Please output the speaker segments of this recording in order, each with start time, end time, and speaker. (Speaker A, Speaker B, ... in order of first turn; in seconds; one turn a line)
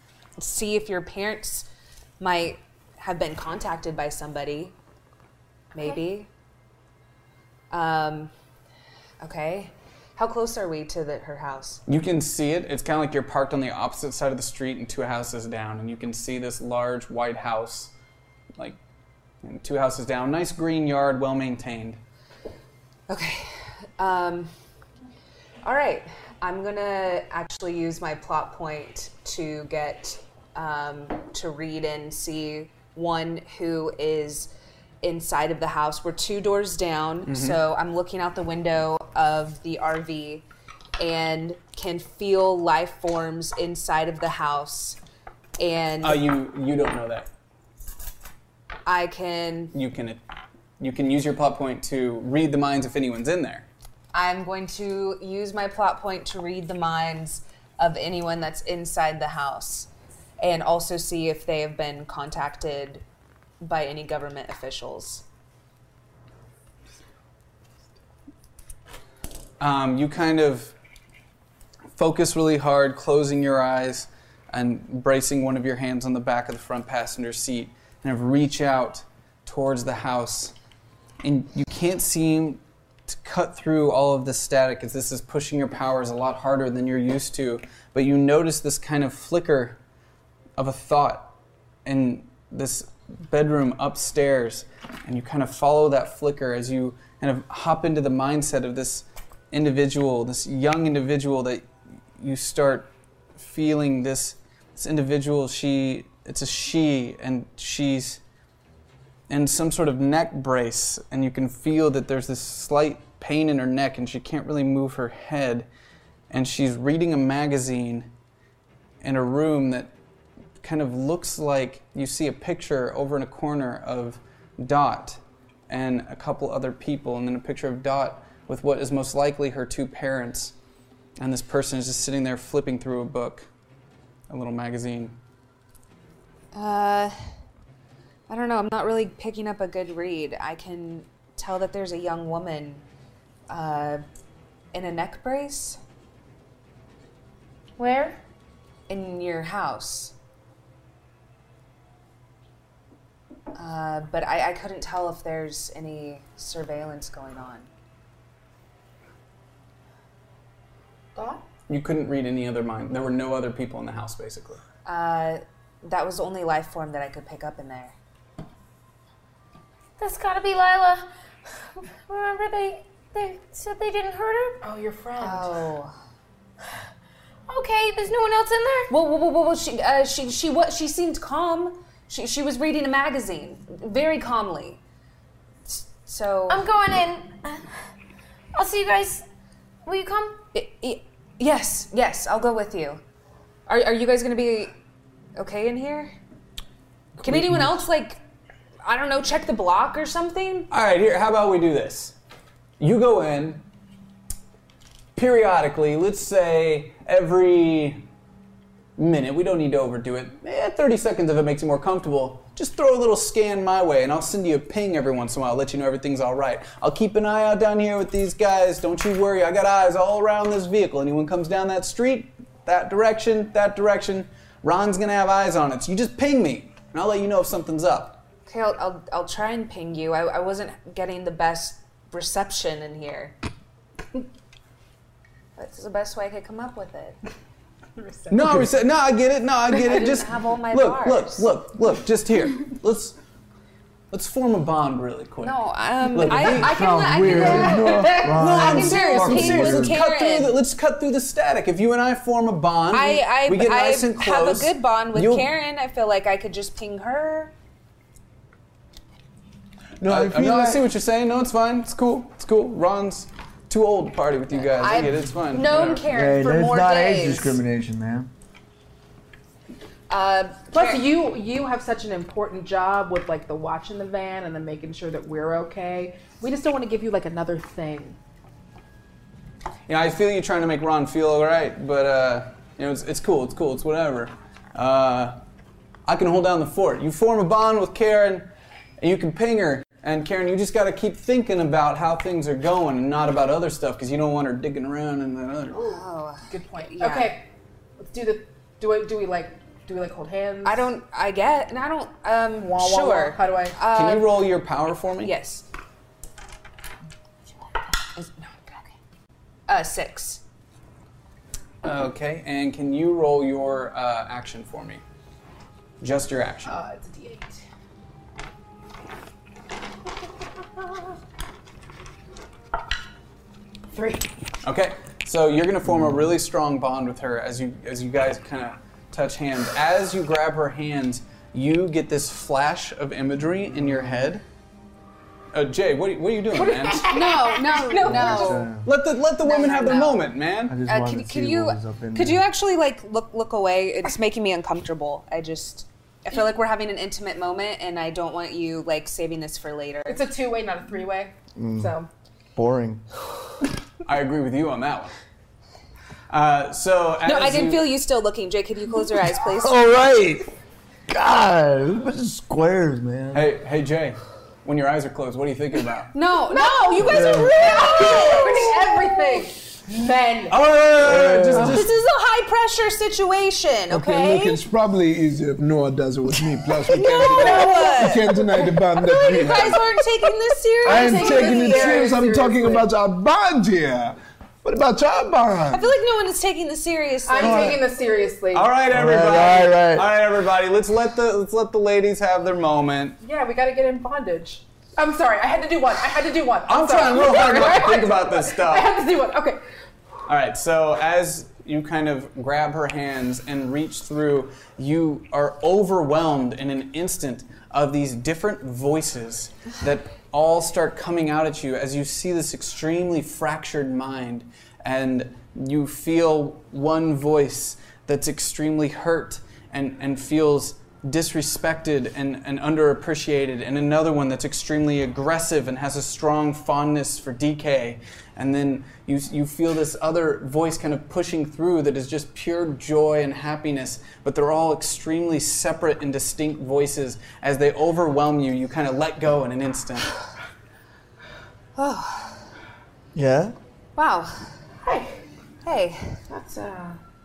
Speaker A: 0.4-1.7
Speaker A: 2.2-4.7
Speaker A: 5.7-6.3
Speaker A: 7.7-8.3
Speaker A: 9.2-11.8
Speaker B: 11.9-17.9
Speaker B: 19.4-22.0
Speaker A: 23.1-24.5
Speaker A: 25.6-34.5
Speaker A: 35.0-40.4
Speaker B: 37.3-37.6
Speaker A: 41.0-45.0
Speaker A: 45.6-46.3
Speaker B: 46.0-47.3
Speaker A: 48.9-49.7
Speaker B: 49.7-50.2
Speaker B: 50.8-53.7
Speaker A: 54.1-59.9
Speaker A: 60.4-63.0
Speaker A: 63.6-65.2
Speaker B: 69.6-70.7
Speaker B: 72.0-80.5
Speaker B: 81.2-89.8
Speaker B: 90.6-91.3
Speaker B: 91.8-101.6
Speaker B: 102.2-108.2
Speaker B: 109.3-115.7
Speaker B: 116.3-118.1
Speaker B: 119.0-119.9
Speaker B: 120.6-130.5
Speaker B: 131.2-133.5
Speaker B: 134.3-135.1
Speaker A: 136.5-137.2
Speaker A: 138.3-142.8
Speaker A: 143.5-144.0
Speaker A: 144.7-145.8
Speaker C: 147.8-148.2
Speaker A: 148.9-150.1
Speaker A: 153.5-157.7
Speaker D: 161.1-161.4
Speaker B: 161.7-164.6
Speaker A: 164.8-167.9
Speaker C: 170.0-171.1
Speaker C: 171.8-174.6
Speaker D: 174.6-175.7
Speaker A: 175.2-175.9
Speaker C: 177.5-178.9
Speaker A: 178.9-184.8
Speaker A: 185.7-186.6
Speaker C: 186.5-187.7
Speaker C: 188.5-189.2
Speaker C: 189.8-190.4
Speaker A: 190.5-193.0
Speaker A: 193.7-194.7
Speaker A: 195.3-196.2
Speaker A: 197.2-198.2
Speaker A: 198.8-200.7
Speaker B: 200.7-202.1
Speaker B: 202.8-203.6
Speaker B: 205.1-208.0
Speaker B: 209.0-228.2
Speaker A: 228.4-233.3
Speaker A: 235.6-237.2
Speaker D: 238.0-238.4
Speaker B: 238.3-243.2
Speaker A: 239.7-241.5
Speaker B: 244.1-245.6
Speaker A: 245.4-250.6
Speaker B: 246.1-247.7
Speaker E: 246.2-250.0
Speaker D: 247.6-248.1
Speaker F: 247.7-248.1
Speaker B: 248.2-255.5
Speaker A: 252.9-257.5
Speaker F: 260.0-260.8
Speaker B: 260.0-266.1
Speaker A: 264.5-267.6
Speaker E: 266.1-268.3
Speaker A: 270.1-271.0
Speaker D: 270.7-278.2
Speaker B: 279.9-285.4
Speaker B: 286.1-296.0
Speaker A: 295.7-297.4
Speaker D: 296.5-297.5
Speaker D: 298.0-300.9
Speaker A: 300.6-304.4
Speaker D: 302.6-303.8
Speaker B: 303.9-305.3
Speaker A: 305.2-305.6
Speaker A: 308.1-308.9
Speaker A: 309.7-310.4
Speaker B: 311.8-315.0
Speaker B: 316.0-316.8
Speaker D: 316.6-317.6
Speaker D: 323.9-324.3
Speaker B: 324.6-334.4
Speaker B: 335.5-337.1
Speaker D: 336.6-338.6
Speaker A: 337.0-338.7
Speaker E: 338.0-338.9
Speaker B: 338.8-340.8
Speaker A: 339.4-340.3
Speaker E: 340.7-342.4
Speaker A: 340.8-350.2
Speaker D: 350.1-352.1
Speaker E: 351.5-351.9
Speaker E: 352.5-353.0
Speaker B: 354.0-355.1
Speaker B: 356.3-357.9
Speaker A: 357.2-359.8
Speaker E: 359.5-360.5
Speaker E: 361.1-363.5
Speaker B: 363.3-366.1
Speaker A: 366.1-369.2
Speaker D: 366.5-370.6
Speaker E: 367.1-367.5
Speaker B: 370.5-371.9
Speaker E: 371.0-371.7
Speaker A: 371.6-374.6
Speaker F: 373.9-379.8
Speaker A: 376.9-382.1
Speaker D: 377.1-378.1
Speaker D: 380.8-382.9
Speaker F: 380.8-385.9
Speaker A: 385.7-387.8
Speaker D: 387.2-388.8
Speaker E: 387.4-387.8
Speaker B: 388.5-393.2
Speaker E: 388.9-390.1
Speaker D: 393.2-399.6
Speaker B: 396.7-399.0
Speaker B: 400.3-440.1
Speaker A: 441.8-442.4
Speaker E: 443.1-443.5
Speaker A: 443.9-444.5
Speaker D: 444.8-445.2
Speaker A: 445.6-446.2
Speaker D: 446.3-447.0